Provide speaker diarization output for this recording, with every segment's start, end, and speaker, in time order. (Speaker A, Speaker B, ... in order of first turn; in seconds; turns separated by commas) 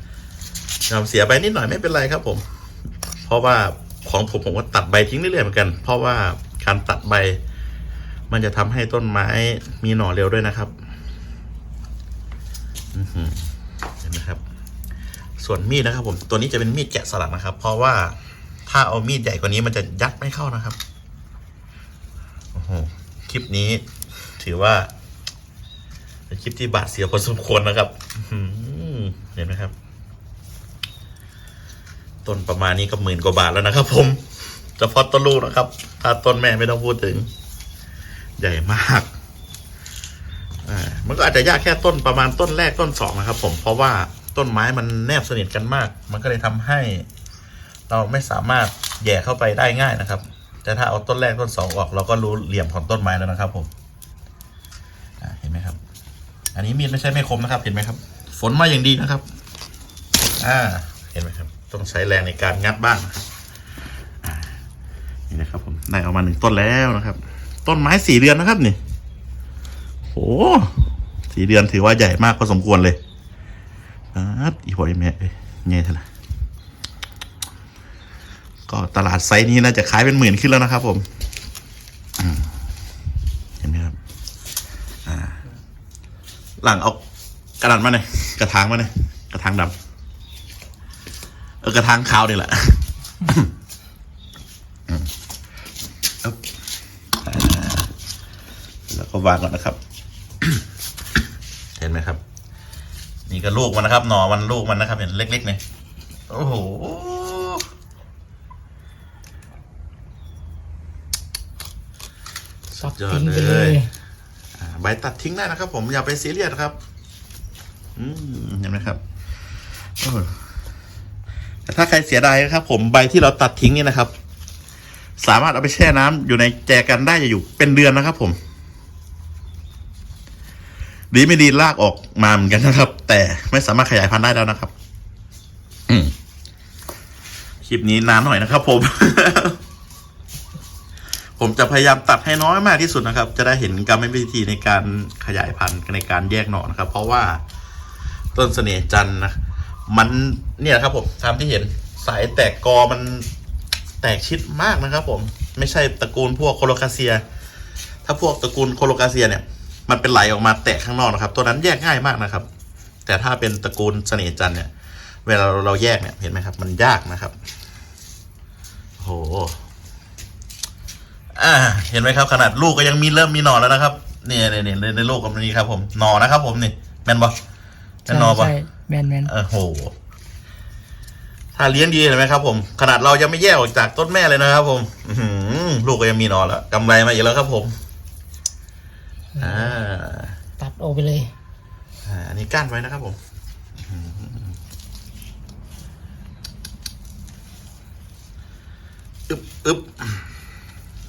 Speaker A: 0.9-2.4, Speaker A: 3.2-7.4, Speaker A: 8.3-10.7, Speaker A: 12.9-13.5, Speaker A: 14.0-14.4, Speaker A: 15.4-20.8, Speaker A: 22.5-23.9, Speaker A: 24.4-24.9, Speaker A: 26.3-29.7, Speaker A: 32.2-34.2, Speaker A: 34.8-37.3, Speaker A: 38.4-39.1, Speaker A: 40.6-47.1, Speaker A: 47.9-53.7, Speaker A: 55.2-55.8, Speaker A: 56.5-59.2, Speaker A: 60.4-63.2, Speaker A: 64.2-64.5, Speaker A: 65.3-68.8, Speaker A: 70.1-73.0, Speaker A: 74.1-76.0, Speaker A: 78.7-81.0, Speaker A: 82.2-82.5, Speaker A: 83.6-84.0, Speaker A: 85.0-85.4, Speaker A: 86.6-87.0, Speaker A: 87.6-89.7, Speaker A: 91.6-93.5, Speaker A: 97.2-97.9, Speaker A: 98.9-99.8, Speaker A: 101.8-102.2, Speaker A: 103.3-105.6, Speaker A: 106.3-107.7, Speaker A: 112.7-113.8, Speaker B: 112.8-113.9, Speaker A: 114.6-116.8, Speaker A: 118.0-119.0, Speaker A: 120.0-120.4, Speaker A: 121.7-124.1, Speaker A: 125.2-128.4, Speaker A: 131.1-134.7, Speaker A: 135.9-136.1, Speaker A: 137.6-139.6, Speaker A: 141.4-147.4, Speaker A: 148.3-153.3, Speaker A: 154.0-157.2, Speaker A: 158.0-162.5, Speaker A: 163.1-164.7, Speaker A: 165.2-167.3, Speaker A: 169.0-169.6, Speaker A: 171.3-177.4, Speaker A: 178.0-178.5, Speaker B: 178.1-179.3, Speaker A: 179.2-179.9, Speaker A: 181.5-187.8, Speaker B: 189.3-189.8, Speaker A: 189.4-190.4, Speaker B: 190.6-191.3, Speaker A: 192.0-193.2, Speaker A: 193.8-194.6, Speaker A: 199.3-200.2